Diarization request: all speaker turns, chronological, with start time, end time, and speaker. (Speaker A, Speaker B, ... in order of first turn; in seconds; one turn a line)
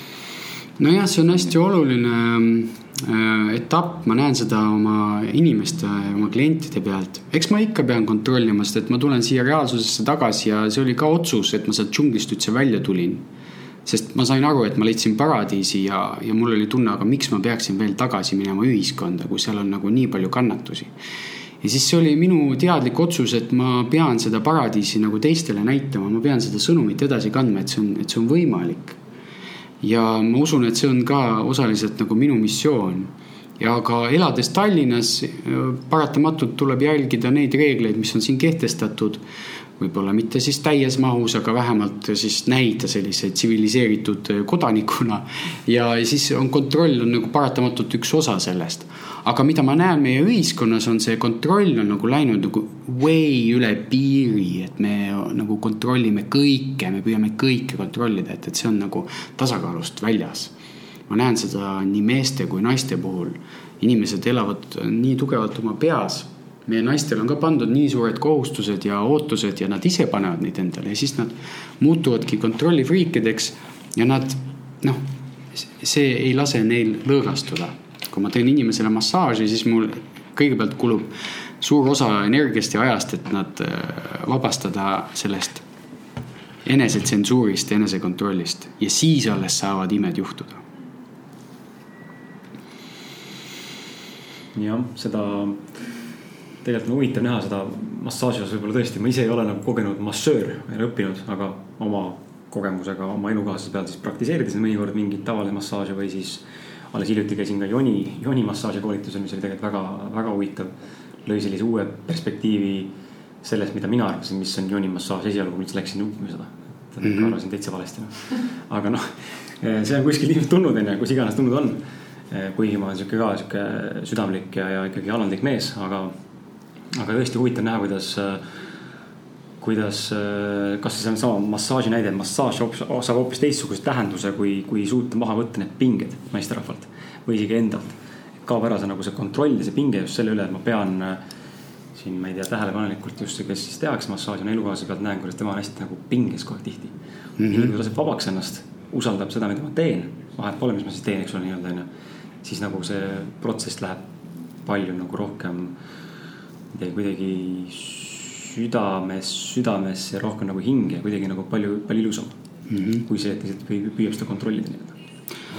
Speaker A: 0.8-13.2
Speaker A: 13.8-20.9
Speaker A: 21.6-29.0
Speaker A: 29.8-39.2
Speaker A: 39.8-60.5
Speaker A: 61.1-75.0
Speaker A: 75.5-85.6
Speaker A: 86.6-90.6
Speaker B: 94.5-95.6
Speaker B: 96.6-110.7
Speaker B: 111.2-112.9
Speaker B: 113.4-121.8
Speaker A: 117.0-117.3
Speaker B: 122.3-126.1
Speaker B: 126.9-128.4
Speaker B: 129.6-141.2
Speaker B: 141.9-146.9
Speaker A: 147.4-147.7
Speaker B: 147.5-151.9
Speaker B: 152.4-154.0
Speaker B: 154.6-155.7
Speaker B: 156.7-162.3
Speaker A: 162.7-163.1
Speaker B: 163.1-164.9